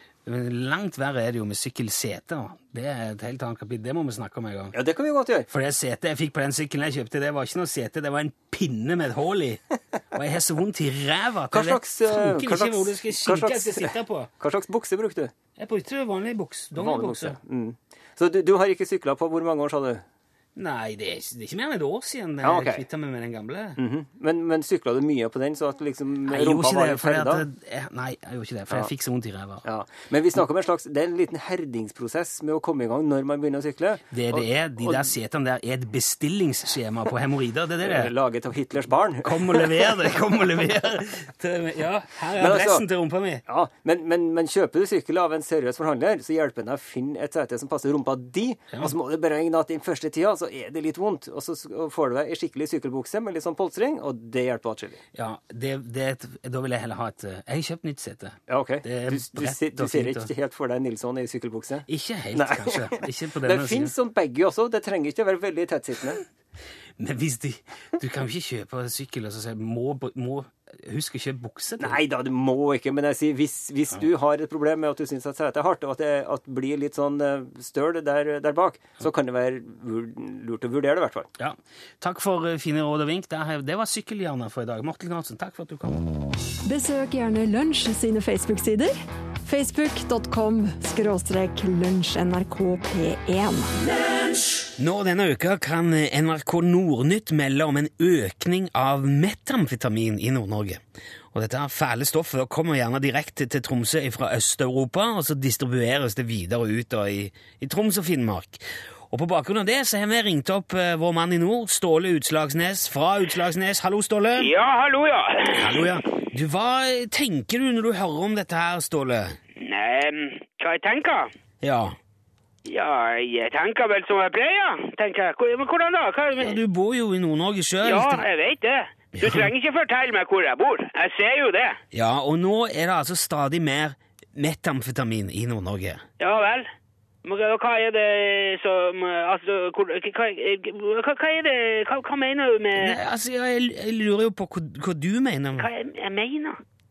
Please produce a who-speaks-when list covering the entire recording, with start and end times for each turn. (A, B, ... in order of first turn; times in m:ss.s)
0:00.2-0:04.8 A
0:04.7-0:05.5 B
0:05.5-0:09.6 A
0:10.1-0:14.3 A
0:11.5-0:15.3 B
0:15.6-0:17.4 A
0:16.7-0:20.0 B
0:20.6-0:23.8 A
0:22.4-0:22.8 B
0:23.8-0:27.4 B
0:26.3-0:29.6 A
0:29.6-0:34.0 B
0:34.1-0:38.1 A
0:37.8-0:40.2 B
0:39.2-0:43.4 A
0:42.4-0:42.8 B
0:43.4-0:55.0 B
0:55.1-1:00.3 A
0:58.5-1:06.2 B
1:01.9-1:03.9 A
1:07.0-1:12.0 A
1:11.8-1:21.3 B
1:21.4-1:26.0 A
1:26.6-1:33.7 C
1:34.8-1:40.8 A
1:41.3-1:54.5 A
1:54.4-1:55.9 D
1:55.5-1:59.4 A
1:59.6-2:01.3 D
2:01.6-2:02.0 A
2:02.6-2:06.6 D
2:06.4-2:08.2 A
2:07.8-2:11.8 D
2:09.2-2:09.5 A
2:11.9-2:16.0 A
2:16.2-2:16.7 D
2:17.2-2:23.0 D
2:22.8-2:25.7 A
2:25.6-2:26.6 D